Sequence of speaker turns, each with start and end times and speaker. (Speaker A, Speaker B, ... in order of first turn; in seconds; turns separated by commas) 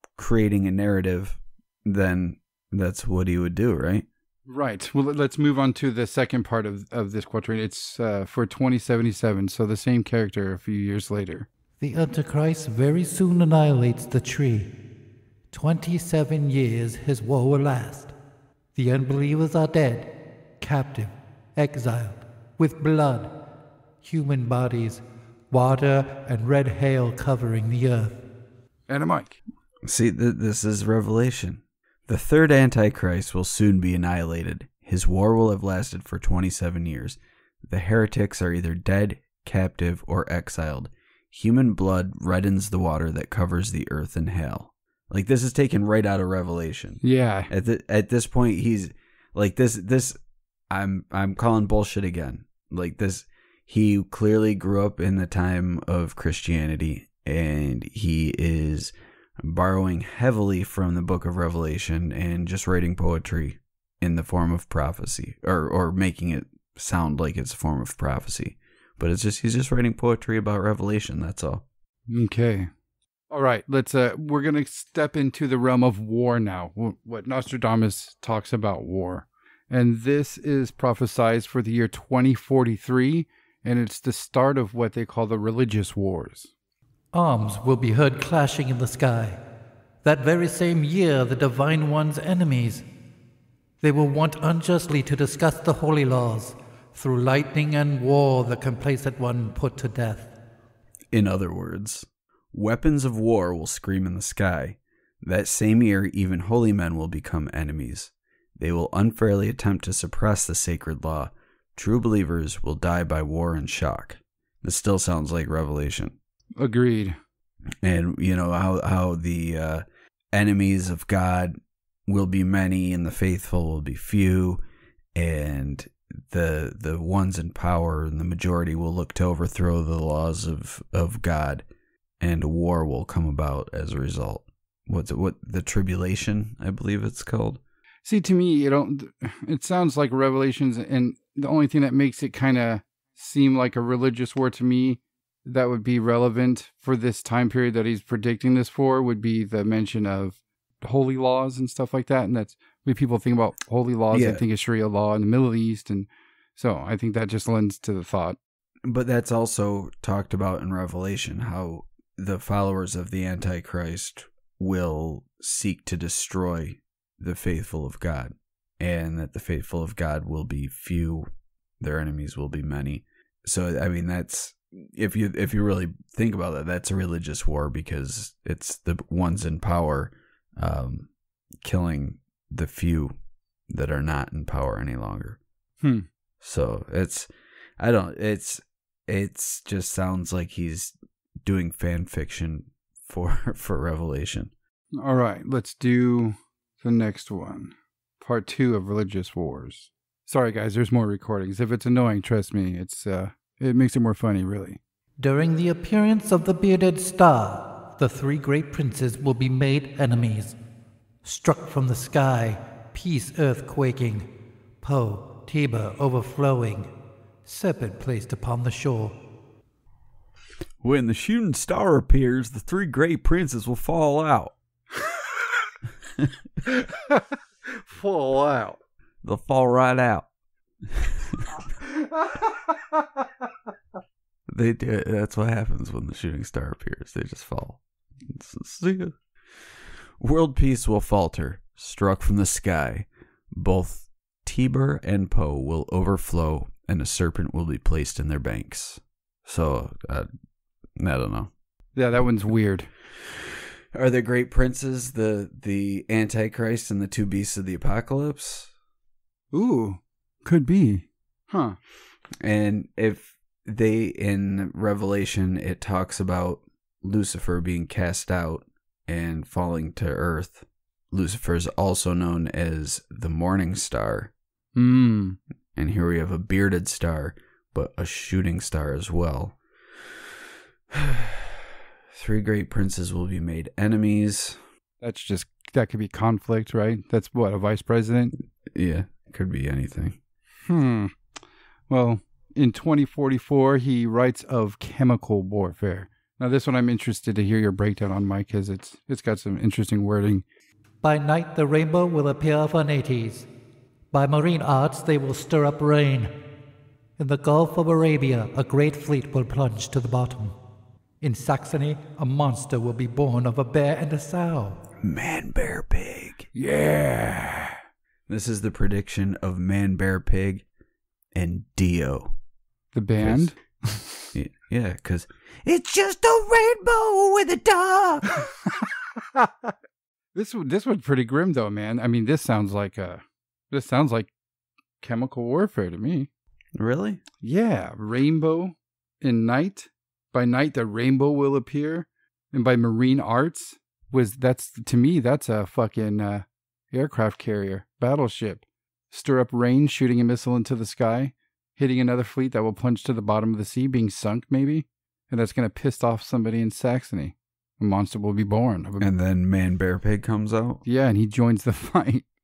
Speaker A: 0.1-4.1, Speaker B: 4.5-11.5, Speaker C: 11.8-14.7, Speaker C: 15.5-18.1, Speaker C: 18.7-23.4, Speaker C: 24.0-28.2, Speaker B: 28.9-29.4, Speaker A: 29.8-50.2, Speaker B: 47.0-47.5, Speaker A: 50.7-71.6, Speaker B: 72.1-72.7, Speaker B: 73.3-86.5, Speaker C: 87.1-89.4, Speaker C: 90.0-92.8, Speaker C: 93.8-100.3, Speaker A: 101.1-116.2, Speaker B: 116.6-117.2, Speaker A: 117.8-121.5, Speaker A: 122.1-124.6, Speaker A: 125.1-131.7, Speaker A: 132.2-137.6, Speaker B: 138.0-158.4, Speaker A: 154.1-154.4, Speaker A: 158.8-171.3, Speaker A: 171.8-181.1, Speaker A: 181.6-183.1, Speaker A: 183.7-185.4, Speaker B: 185.8-186.1, Speaker A: 186.4-194.5, Speaker B: 194.9-204.8, Speaker C: 205.2-210.6, Speaker C: 211.2-214.2, Speaker C: 214.8-216.9, Speaker C: 217.4-219.2, Speaker A: 220.8-224.5, Speaker B: 226.7-228.8, Speaker A: 229.2-230.2, Speaker A: 230.9-231.4, Speaker B: 232.0-232.8, Speaker A: 234.5-239.2, Speaker A: 240.2-250.3, Speaker A: 251.0-251.5, Speaker B: 251.9-252.9, Speaker A: 253.9-258.7, Speaker B: 259.5-261.8, Speaker A: 262.4-274.3, Speaker B: 274.7-275.4, Speaker A: 275.8-280.2, Speaker A: 280.9-284.6, Speaker B: 285.0-288.3, Speaker A: 288.6-290.2, Speaker B: 290.7-291.1, Speaker B: 291.9-300.4, Speaker C: 301.0-303.5, Speaker C: 304.1-306.3, Speaker C: 307.2-310.5, Speaker C: 311.2-314.8, Speaker A: 315.0-316.5, Speaker B: 316.5-317.8, Speaker A: 318.3-320.6, Speaker A: 321.3-322.3, Speaker B: 322.9-324.3, Speaker A: 323.2-323.5, Speaker A: 324.3-328.5, Speaker B: 329.3-329.7, Speaker B: 330.3-334.3, Speaker B: 335.0-336.3, Speaker A: 336.8-337.2, Speaker B: 337.4-359.1, Speaker A: 359.0-360.8, Speaker B: 360.8-362.2